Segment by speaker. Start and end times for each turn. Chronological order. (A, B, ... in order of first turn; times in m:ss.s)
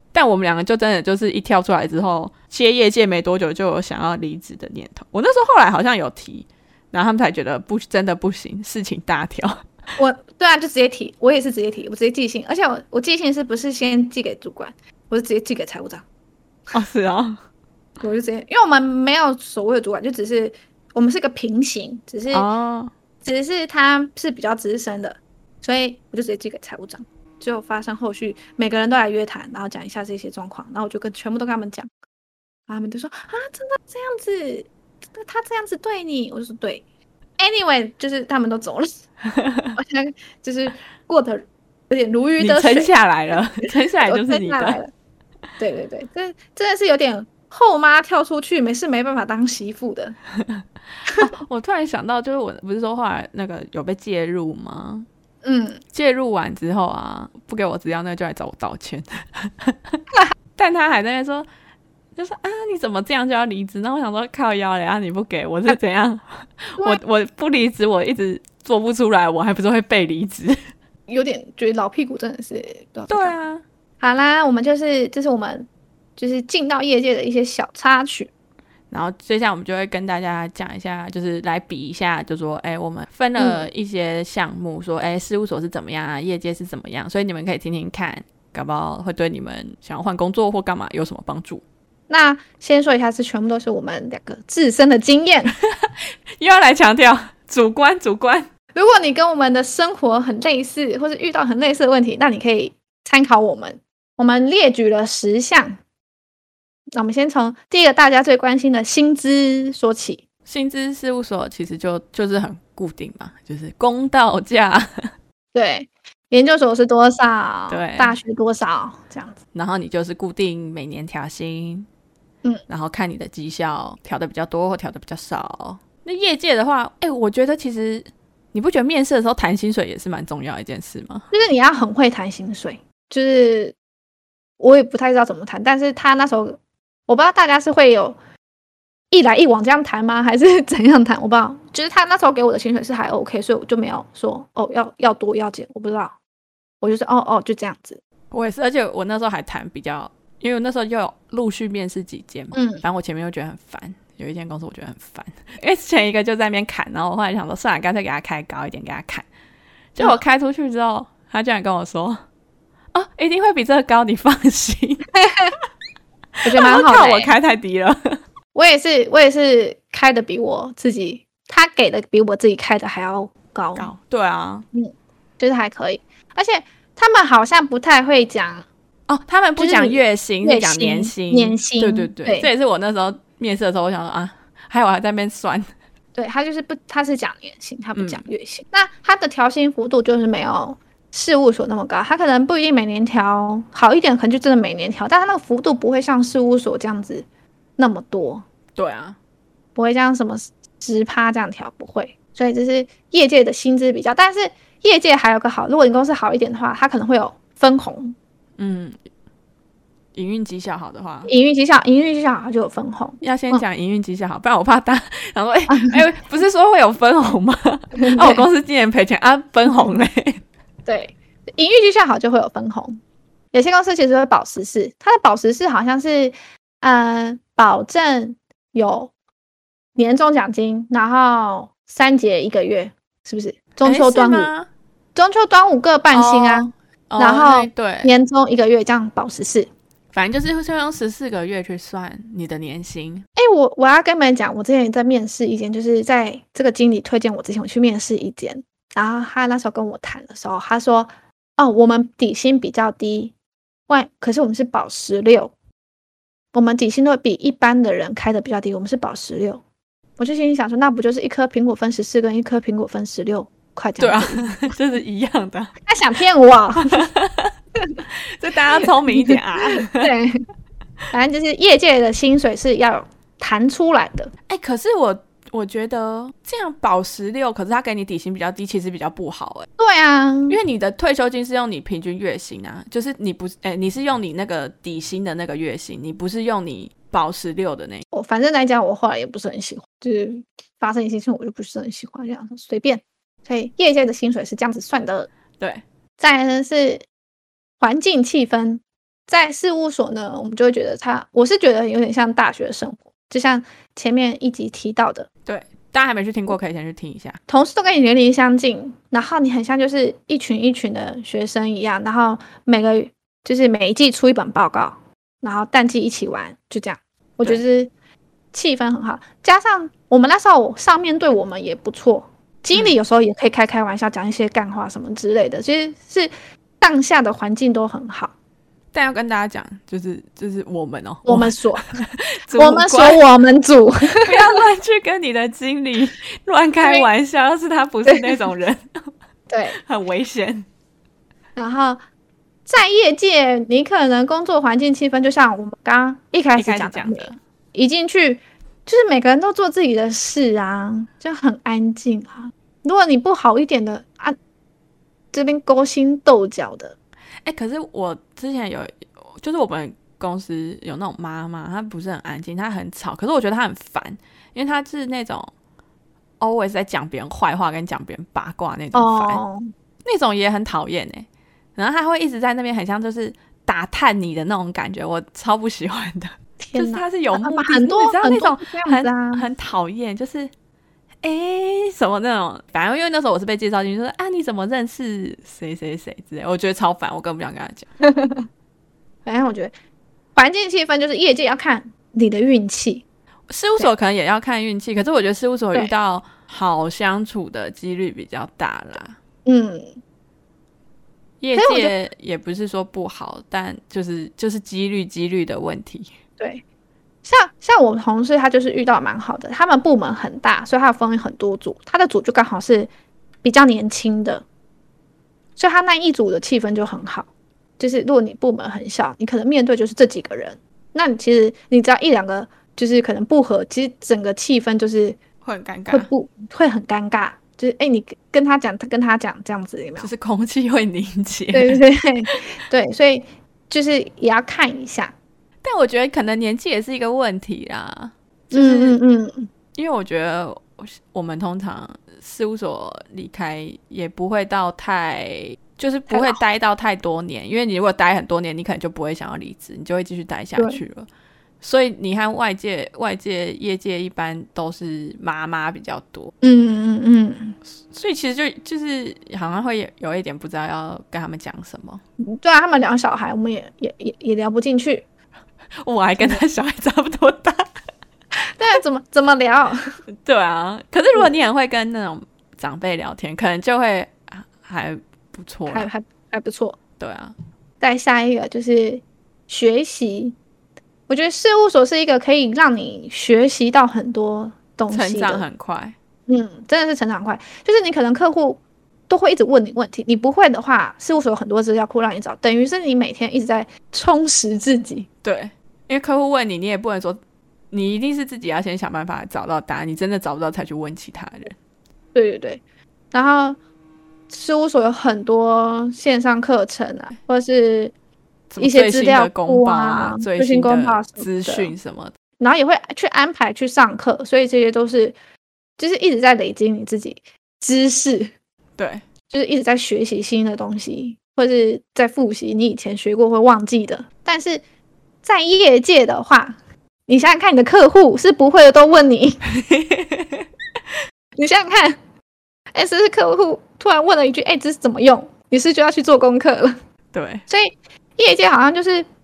0:00.1-0:09.6 A
0:10.0-0:16.0 B
0:16.7-0:17.4 A
0:18.0-0:22.5 B
0:22.3-0:22.9 A
0:23.2-0:31.9 B
0:32.7-0:36.8 B
0:37.4-0:38.9 B
0:39.3-0:39.7 A
0:39.7-0:42.9 B
0:42.4-0:44.8 A
0:43.6-0:44.9 B
0:45.6-0:50.2 B
0:51.1-0:55.1 A
0:55.4-0:55.8 B
0:55.9-1:00.0 A
1:00.6-1:01.5 A
1:02.2-1:10.6 A
1:11.1-1:13.4 B
1:13.1-1:13.6 A
1:14.0-1:18.3 B
1:18.9-1:31.6 A
1:23.4-1:23.7 B
1:32.1-1:35.6 B
1:35.7-1:38.5 A
1:38.7-1:45.8 B
1:47.0-1:50.2 B
1:50.5-1:55.1 A
1:55.5-1:59.4 B
1:57.7-1:58.2 A
1:59.5-2:01.9 A
2:02.7-2:11.3 A
2:11.3-2:13.7 B
2:14.6-2:18.2 B
2:19.1-2:26.1 B
2:26.8-2:28.0 B
2:28.3-2:39.2 A
2:32.5-2:32.8 B
2:40.0-2:42.2 A
2:42.9-2:45.0 A
2:45.2-2:45.6 B
2:46.4-2:47.3 B
2:46.5-2:48.2 A
2:48.5-2:53.9 B
2:53.8-2:54.6 A
2:54.7-2:58.6 B
2:59.1-3:05.7 A
2:59.6-3:02.5 B
3:06.1-3:17.2 B
3:08.0-3:08.2 A
3:17.8-3:18.4 B
3:18.8-3:19.2 A
3:19.8-3:28.2 B
3:28.6-3:29.0 A
3:30.1-3:31.3 A
3:31.2-3:33.6 B
3:33.2-3:40.4 A
3:35.7-3:36.0 B
3:38.0-3:38.4 B
3:40.8-3:43.0 B
3:43.5-3:49.1 B
3:50.0-3:54.5 B
3:53.8-3:54.7 A
3:55.1-3:59.7 B
3:56.1-3:58.1 A
4:00.1-4:03.2 A
4:03.4-4:13.3 B
4:13.9-4:15.5 B
4:16.5-4:19.6 B
4:20.2-4:24.7 B
4:24.0-4:25.7 A
4:25.8-4:27.1 B
4:26.9-4:27.5 A
4:28.1-4:30.1 A
4:28.8-4:30.4 B
4:31.1-4:34.3 B
4:34.5-4:39.7 A
4:39.8-4:40.6 B
4:40.5-4:48.0 A
4:48.1-4:55.3 B
4:56.2-4:57.0 B
4:57.8-5:05.3 B
5:05.4-5:07.4 A
5:07.5-5:17.9 B
5:18.5-5:28.3 B
5:28.9-5:33.2 A
5:31.2-5:32.0 B
5:32.5-5:34.6 B
5:34.2-5:38.9 A
5:38.0-5:38.4 B
5:39.5-5:39.8 B
5:39.8-5:40.6 A
5:41.6-5:42.0 B
5:42.7-5:54.4 B
5:46.6-5:47.4 A
5:55.3-5:57.0 B
5:57.4-6:05.5 A
6:06.4-6:09.4 A
6:08.9-6:09.7 B
6:10.0-6:20.5 A
6:16.6-6:19.4 B
6:21.2-6:27.9 A
6:28.0-6:28.4 B
6:29.2-6:29.7 B
6:30.4-6:33.0 B
6:33.5-6:39.2 A
6:39.4-6:40.0 B
6:41.4-6:46.1 A
6:41.5-6:41.9 B
6:46.4-6:46.6 B
6:47.2-6:52.9 B
6:53.4-6:54.4 B
6:55.6-6:57.3 B
6:57.8-7:05.2 B
7:05.4-7:06.1 A
7:05.9-7:10.1 B
7:10.0-7:11.8 A
7:11.5-7:15.1 B
7:15.6-7:19.0 A
7:18.5-7:19.5 B
7:19.7-7:31.1 A
7:26.1-7:26.4 B
7:30.6-7:30.8 B
7:31.6-7:36.3 A
7:36.4-7:37.6 B
7:37.9-7:42.0 A
7:42.2-7:45.0 B
7:45.8-7:47.7 A
7:48.4-7:49.9 B
7:50.2-7:55.9 A
7:55.7-7:56.8 B
7:57.0-7:57.3 A
7:57.8-8:00.4 B
8:01.1-8:05.4 B
8:04.9-8:05.9 A
8:06.3-8:15.1 B
8:15.2-8:17.2 A
8:17.7-8:21.6 A
8:22.1-8:22.6 B
8:23.1-8:23.6 B
8:24.3-8:27.9 B
8:28.5-8:32.1 A
8:28.6-8:31.7 B
8:32.4-8:35.1 B
8:35.8-8:38.3 B
8:38.8-8:39.0 A
8:39.3-8:44.6 B
8:45.2-8:49.4 B
8:49.5-8:50.4 A
8:51.4-8:52.0 B
8:52.7-8:56.8 B
8:57.1-8:57.4 A
8:57.5-8:59.0 B